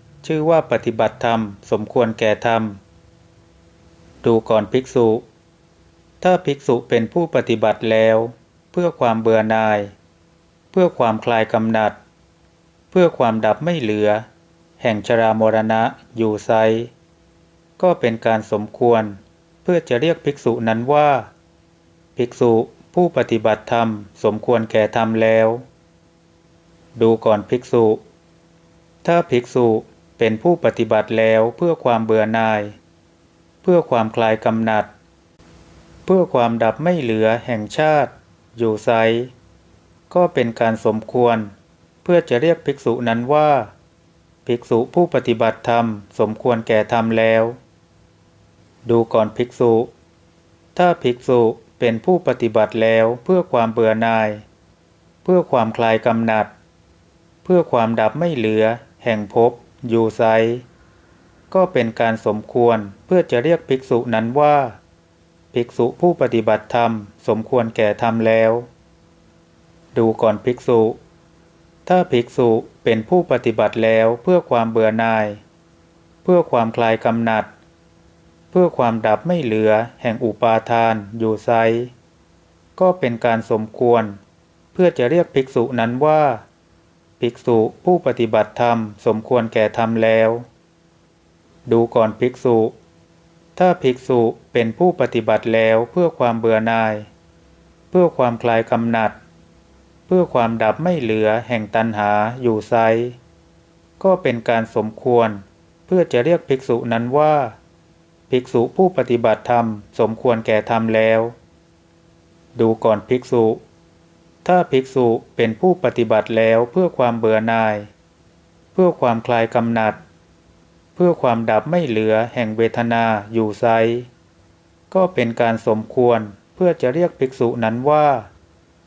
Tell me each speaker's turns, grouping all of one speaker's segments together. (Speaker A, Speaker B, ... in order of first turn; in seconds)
Speaker A: 0.2-2.8, 4.2-5.2, 6.2-9.9, 10.7-12.0, 12.9-14.3, 14.8-16.9, 17.8-21.3, 22.2-25.6, 27.0-28.0, 29.0-32.8, 33.6-34.9, 36.1-39.3, 40.1-41.5, 42.0-43.7, 44.5-47.6, 48.9-49.9, 50.8-54.4, 55.2-56.5, 57.4-60.6, 61.5-64.8, 65.5-68.7, 70.0-71.0, 71.9-75.4, 76.2-77.5, 78.5-81.9, 82.8-84.2, 84.7-86.4, 87.2-90.5, 91.7-92.7, 93.6-97.1, 97.9-99.2, 100.1-103.2, 104.0-107.6, 108.3-111.3, 112.6-113.6, 114.4-117.9, 118.7-120.0, 121.0-124.1, 124.9-128.3